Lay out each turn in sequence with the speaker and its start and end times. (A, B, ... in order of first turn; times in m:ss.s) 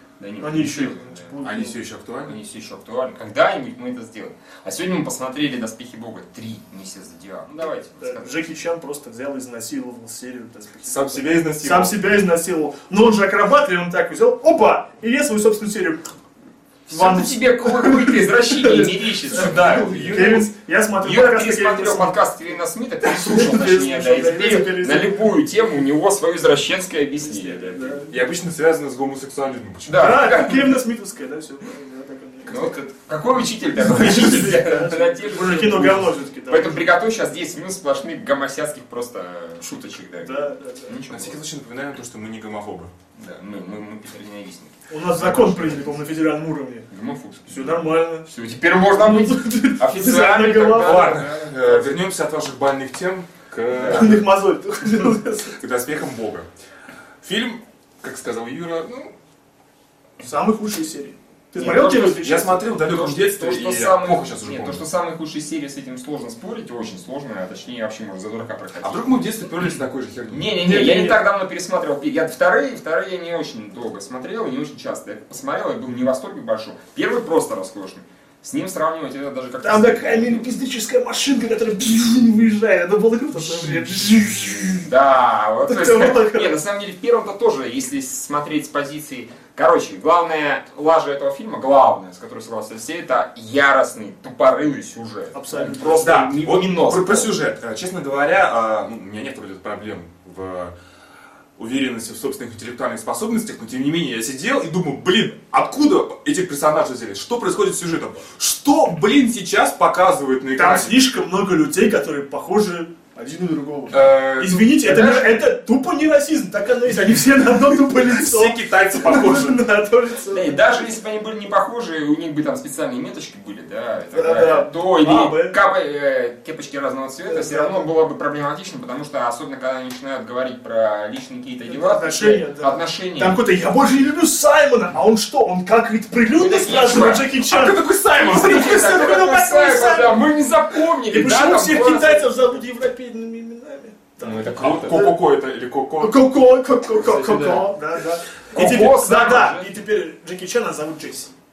0:00.2-0:01.3 A
0:00.4-0:01.8 B
0:01.4-0:02.4 C
0:02.2-0:08.4 A
0:08.0-0:16.0 B
0:10.8-0:12.0 C
0:16.9-0:20.5 A
0:16.9-0:22.2 B
0:19.3-0:20.4 C
0:21.0-0:28.1 A
0:23.0-0:25.2 B
0:27.2-0:28.1 B
0:28.1-0:30.2 C
0:29.8-0:30.8 A
0:29.9-0:32.7 B
0:32.4-0:41.4 A
0:33.8-0:36.8 B
0:40.2-0:41.0 B
0:41.1-0:42.9 C
0:43.2-0:46.0 A
0:44.9-0:46.9 B
0:46.9-0:51.9 A
0:47.5-0:51.2 B
0:50.8-0:54.3 C
0:53.8-0:55.6 B
0:55.5-0:56.5 C
0:57.2-0:59.1 C
1:00.2-1:02.7 B
1:01.6-1:02.2 A
1:01.6-1:04.8 C
1:02.8-1:09.7 A
1:08.8-1:10.5 C
1:10.3-1:20.5 A
1:10.6-1:11.2 B
1:19.6-1:24.9 B
1:24.8-1:37.3 A
1:25.7-1:26.6 B
1:35.3-1:36.3 B
1:36.0-1:40.7 C
1:41.6-1:51.0 C
1:50.6-2:00.8 B
1:53.9-1:55.0 C
1:54.8-1:55.4 A
1:57.5-1:59.6 C
2:00.3-2:13.4 A
2:04.1-2:05.6 B
2:07.2-2:07.9 B
2:11.7-2:20.2 B
2:16.3-2:17.3 A
2:16.7-2:19.0 C
2:18.2-2:22.6 A
2:21.1-2:25.2 B
2:24.2-2:24.9 A
2:24.2-2:26.2 C
2:26.0-2:31.3 B
2:27.0-2:27.8 A
2:28.5-2:29.7 A